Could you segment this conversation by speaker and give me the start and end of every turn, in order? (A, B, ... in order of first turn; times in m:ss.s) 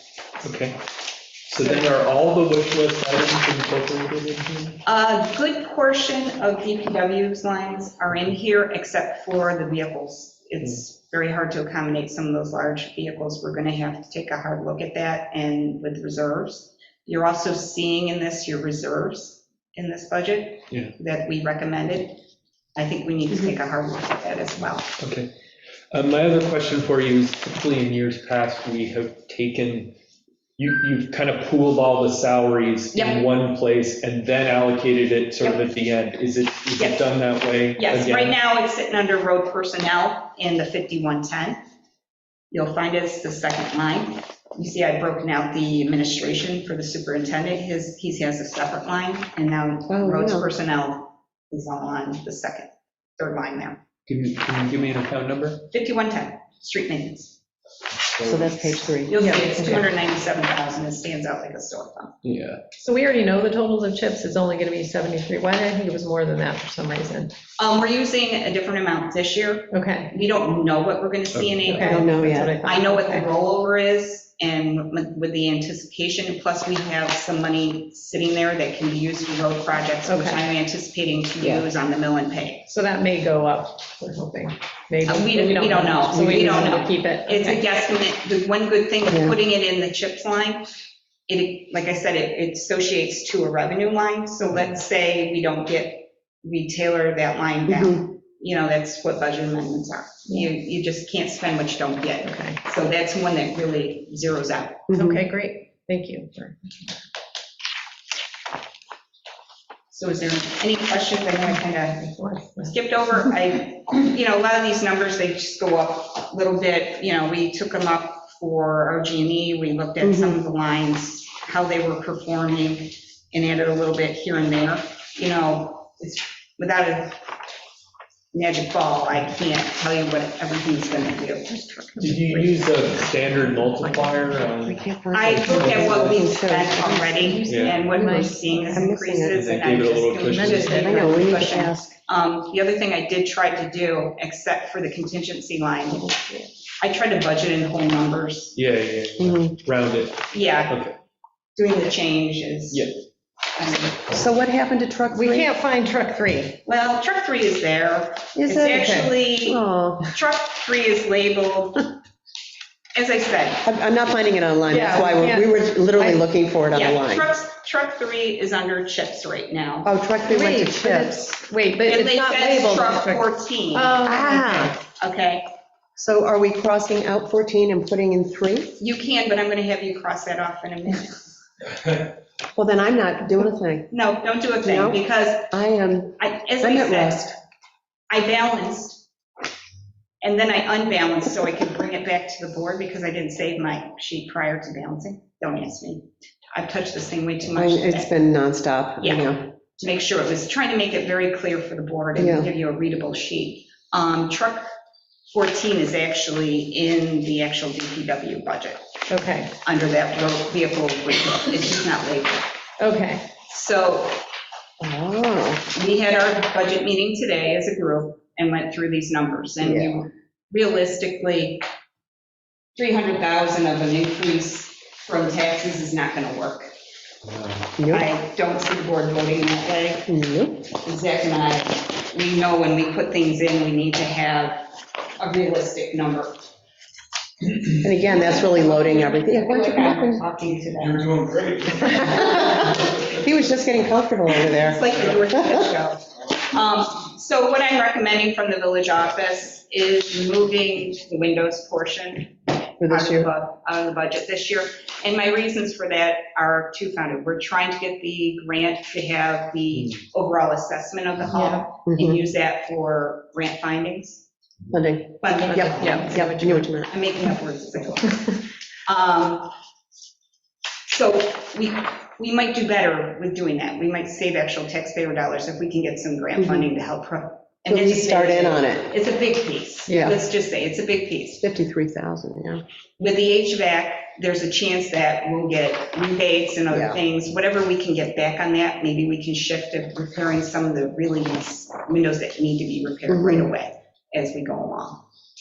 0:00.4-0:00.8 A
0:01.5-0:04.8 A
0:01.6-0:01.9 B
0:04.8-0:22.2 B
0:22.8-0:24.9 B
0:25.0-0:25.3 A
0:25.9-0:29.9 A
0:30.6-0:38.4 A
0:32.9-0:33.2 B
0:36.8-0:37.1 B
0:37.8-0:41.6 B
0:42.5-0:53.8 B
0:49.9-0:50.5 C
0:54.0-0:55.6 A
0:55.7-0:57.3 B
0:58.2-0:58.5 A
0:58.2-0:59.8 C
0:59.0-1:02.1 B
0:59.2-0:59.8 D
1:02.2-1:02.6 A
1:02.8-1:07.3 D
1:07.6-1:22.6 B
1:09.7-1:10.1 D
1:11.3-1:11.8 A
1:11.7-1:13.3 D
1:11.8-1:12.6 C
1:20.0-1:20.4 D
1:22.7-1:27.6 D
1:25.1-1:30.6 B
1:29.1-1:29.3 C
1:31.3-1:44.9 B
1:37.7-1:38.0 C
1:42.2-1:42.6 D
1:44.9-1:45.2 C
1:44.9-1:46.9 D
1:49.9-2:07.2 B
1:52.1-1:53.3 D
2:00.0-2:00.4 C
2:08.3-2:12.7 B
2:11.7-2:14.3 D
2:12.0-2:16.2 A
2:14.6-2:19.5 C
2:15.1-2:26.1 B
2:17.4-2:17.8 A
2:17.9-2:18.9 D
2:19.3-2:21.3 A
2:20.2-2:21.3 D
2:20.8-2:21.9 C
2:25.9-2:26.4 C
2:26.8-2:28.6 B
2:28.5-2:30.9 A
2:29.2-2:29.5 C
2:30.3-2:30.8 B
2:31.6-2:32.9 B
2:32.7-2:33.0 A
2:33.6-2:34.0 B
2:34.1-2:35.5 C
2:35.1-2:36.6 D
2:36.6-2:39.6 B
2:38.3-2:38.8 C
2:38.7-2:39.1 D
2:39.4-2:40.1 C
2:40.1-2:41.9 B
2:42.9-2:43.6 B
2:43.6-2:47.3 C
2:44.7-2:46.2 D
2:46.7-2:49.9 B
2:49.8-2:51.2 C
2:50.3-2:54.8 D
2:51.8-2:54.0 B
2:54.0-2:54.8 C
2:55.0-2:55.5 B
2:56.0-2:58.7 C
2:58.8-3:01.3 B
3:02.5-3:03.9 C
3:03.9-3:05.5 B
3:04.6-3:07.4 C
3:06.2-3:07.2 B
3:08.1-3:09.0 B
3:10.2-3:18.1 B
3:17.5-3:19.4 C
3:19.0-3:24.6 B
3:22.2-3:22.5 C
3:25.3-3:28.9 B
3:29.1-3:29.5 D
3:29.6-3:32.5 B
3:32.8-3:33.3 D
3:33.4-3:34.2 B
3:34.8-3:35.6 C
3:35.7-3:41.6 B
3:39.6-3:40.0 C
3:42.8-3:46.7 B
3:47.2-3:47.7 A
3:47.8-3:48.1 C
3:47.9-3:50.1 B
3:50.1-3:50.7 C
3:50.7-3:54.7 B
3:55.2-3:56.5 B
3:57.8-4:00.2 C
3:57.8-4:01.4 B
4:00.8-4:02.0 A
4:01.7-4:05.7 C
4:04.5-4:24.2 B
4:12.8-4:13.3 C
4:21.3-4:21.7 D
4:21.9-4:22.2 C
4:24.7-4:26.9 C
4:25.2-4:29.5 B
4:25.5-4:26.8 D
4:30.9-4:41.4 B
4:36.4-4:36.7 C
4:37.7-4:38.9 C
4:39.9-4:40.1 D
4:39.9-4:40.2 C
4:41.4-4:42.6 C
4:43.0-4:55.0 B
4:46.7-4:47.0 C
4:53.1-4:53.5 C